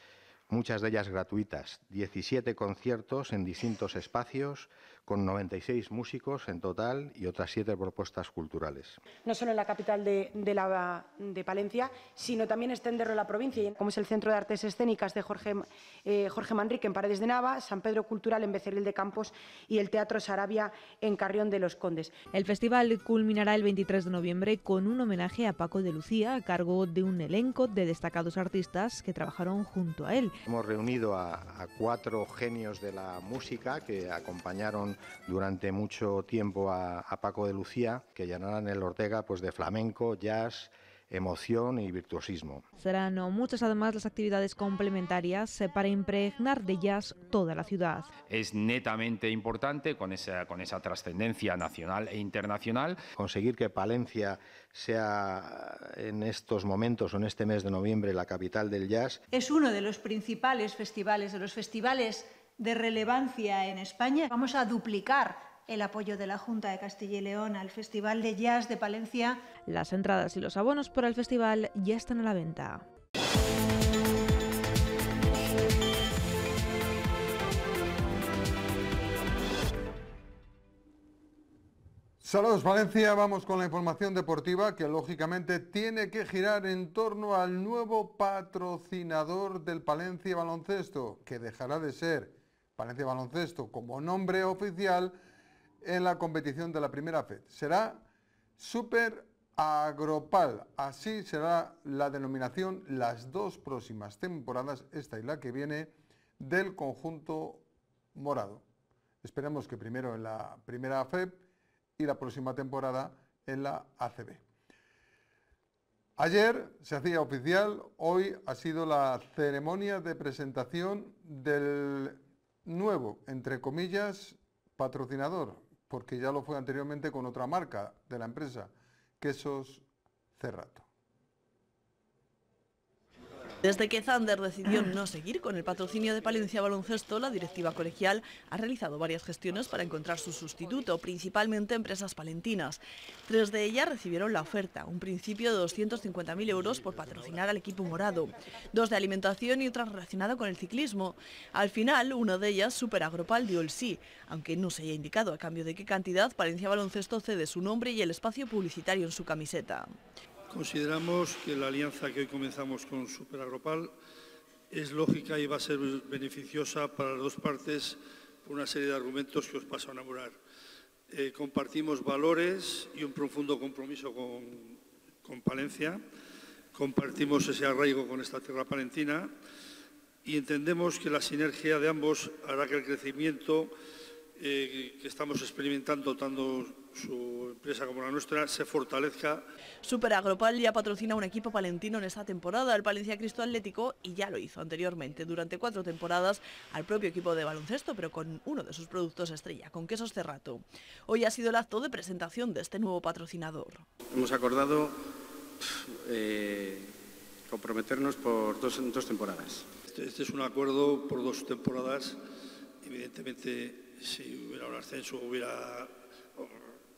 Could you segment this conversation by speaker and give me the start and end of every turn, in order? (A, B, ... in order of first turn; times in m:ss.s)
0:00.5-0:09.0 A
0:09.2-0:22.1 B
0:22.3-0:30.4 C
0:30.5-0:42.6 A
0:42.8-0:48.1 C
0:48.3-0:53.0 D
0:53.1-0:59.2 A
0:59.3-1:09.4 E
1:09.6-1:12.8 C
1:22.2-1:35.1 F
1:35.8-1:38.0 F
1:38.6-1:48.6 F
1:49.2-1:51.4 F
1:52.0-1:54.4 F
1:56.2-2:09.8 F
2:10.4-2:10.8 F
2:13.6-2:39.9 G
2:40.5-2:43.9 H
2:44.7-2:50.4 H
2:51.1-2:56.0 H
2:56.7-2:59.3 H
3:00.2-3:03.7 H
3:04.4-3:09.4 H
3:09.8-3:23.9 G
3:24.1-3:25.0 I
3:25.6-3:26.9 I
3:27.5-3:29.7 I
3:29.9-3:32.2 H
3:32.8-3:36.5 H